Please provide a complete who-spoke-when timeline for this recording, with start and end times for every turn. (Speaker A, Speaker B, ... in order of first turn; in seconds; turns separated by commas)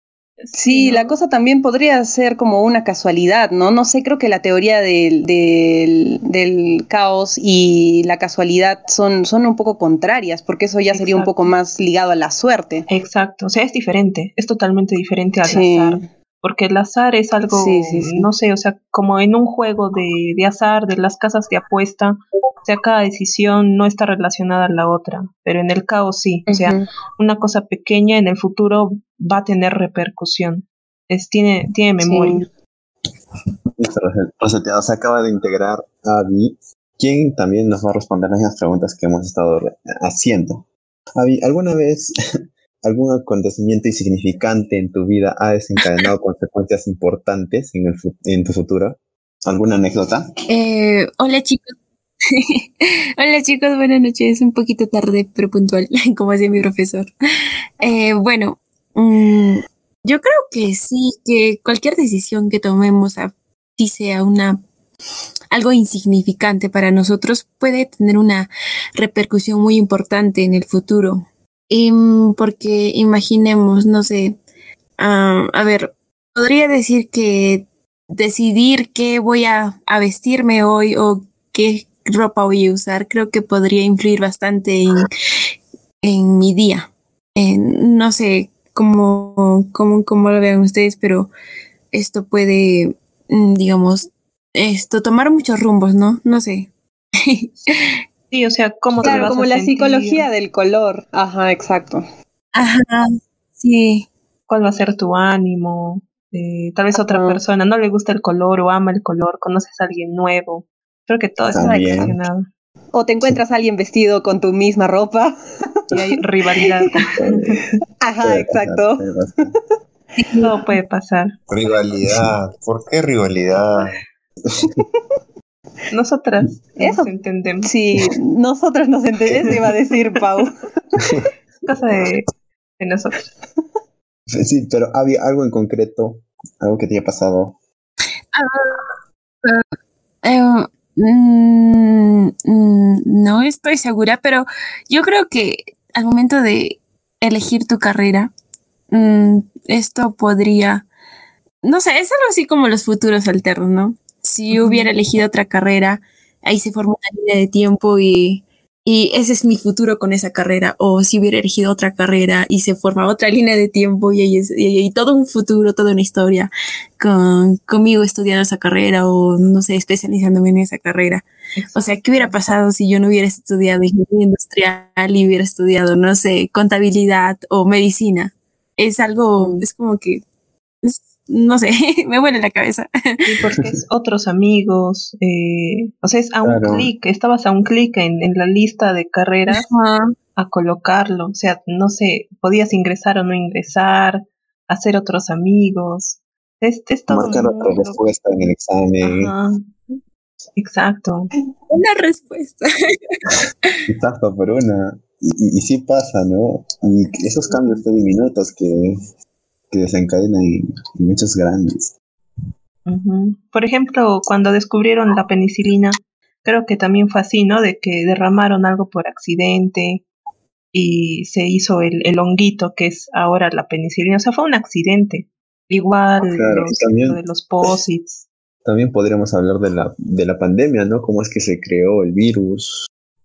Speaker A: 0.4-1.2, Speaker B: 0.5-12.9, Speaker A: 10.9-11.5, Speaker A: 12.9-32.5, Speaker B: 15.4-16.1, Speaker B: 17.5-18.3, Speaker B: 26.5-26.9, Speaker B: 32.0-32.5, Speaker C: 33.8-40.6, Speaker C: 41.2-42.1, Speaker C: 42.8-50.3, Speaker D: 50.5-51.8, Speaker D: 52.3-52.6, Speaker D: 53.2-57.1, Speaker D: 57.8-64.6, Speaker D: 65.5-74.4, Speaker D: 75.0-85.1, Speaker D: 86.0-91.3, Speaker D: 91.9-96.7, Speaker D: 97.2-97.9, Speaker A: 98.3-100.3, Speaker C: 98.9-99.3, Speaker B: 99.0-102.0, Speaker D: 102.5-104.1, Speaker A: 104.5-112.5, Speaker B: 107.1-107.4, Speaker B: 111.5-112.2, Speaker C: 111.5-112.2, Speaker B: 112.9-115.4, Speaker A: 115.9-117.6, Speaker C: 117.2-117.6, Speaker B: 118.0-119.0, Speaker C: 118.2-119.6, Speaker D: 120.2-120.5, Speaker A: 120.4-121.3, Speaker C: 121.5-122.3, Speaker E: 121.6-124.0, Speaker A: 125.9-127.7, Speaker B: 126.8-127.1, Speaker B: 127.6-130.5, Speaker C: 131.0-131.3, Speaker A: 131.7-132.3, Speaker A: 132.8-133.3, Speaker C: 134.3-137.6, Speaker D: 138.3-138.9, Speaker D: 140.2-148.3, Speaker D: 148.9-150.9, Speaker D: 151.6-180.2, Speaker A: 154.6-154.8, Speaker A: 171.6-172.4, Speaker B: 179.4-179.6, Speaker D: 180.8-182.9, Speaker A: 183.3-189.7, Speaker C: 186.4-186.9, Speaker D: 189.5-190.1, Speaker A: 190.4-198.0, Speaker C: 197.1-199.3, Speaker A: 199.0-200.0, Speaker A: 200.6-201.3, Speaker D: 201.7-203.2, Speaker C: 203.9-209.0, Speaker C: 209.7-211.9, Speaker A: 212.9-220.0, Speaker A: 220.7-228.3, Speaker C: 226.2-227.2, Speaker C: 228.7-232.9